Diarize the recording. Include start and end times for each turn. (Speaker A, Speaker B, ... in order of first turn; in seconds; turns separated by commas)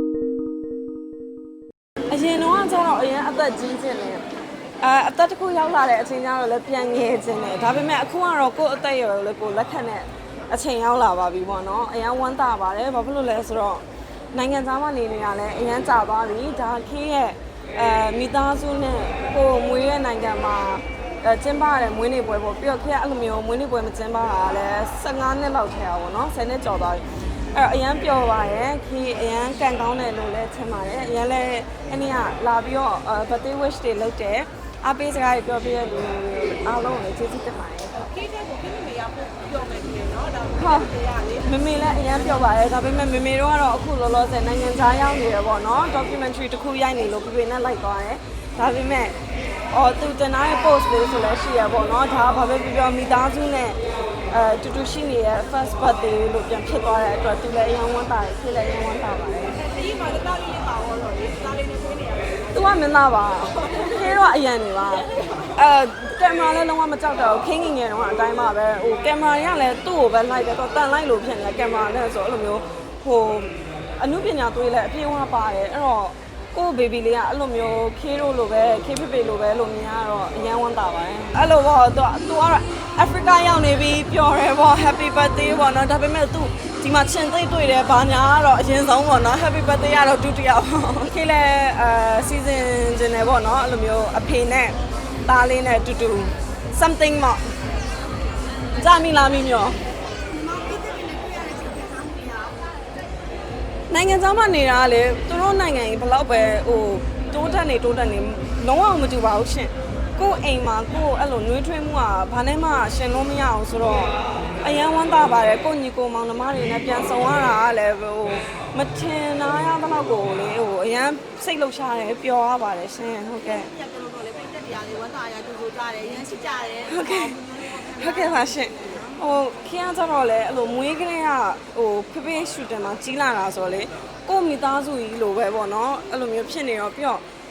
Speaker A: 2.1-4.2, Speaker A: 4.8-38.1, Speaker B: 38.0-41.5, Speaker A: 40.5-49.2, Speaker A: 49.7-59.6, Speaker B: 59.6-62.5, Speaker A: 62.5-97.4, Speaker A: 98.7-99.8, Speaker B: 100.2-102.7, Speaker A: 103.9-123.7, Speaker B: 123.5-128.3, Speaker A: 126.9-137.2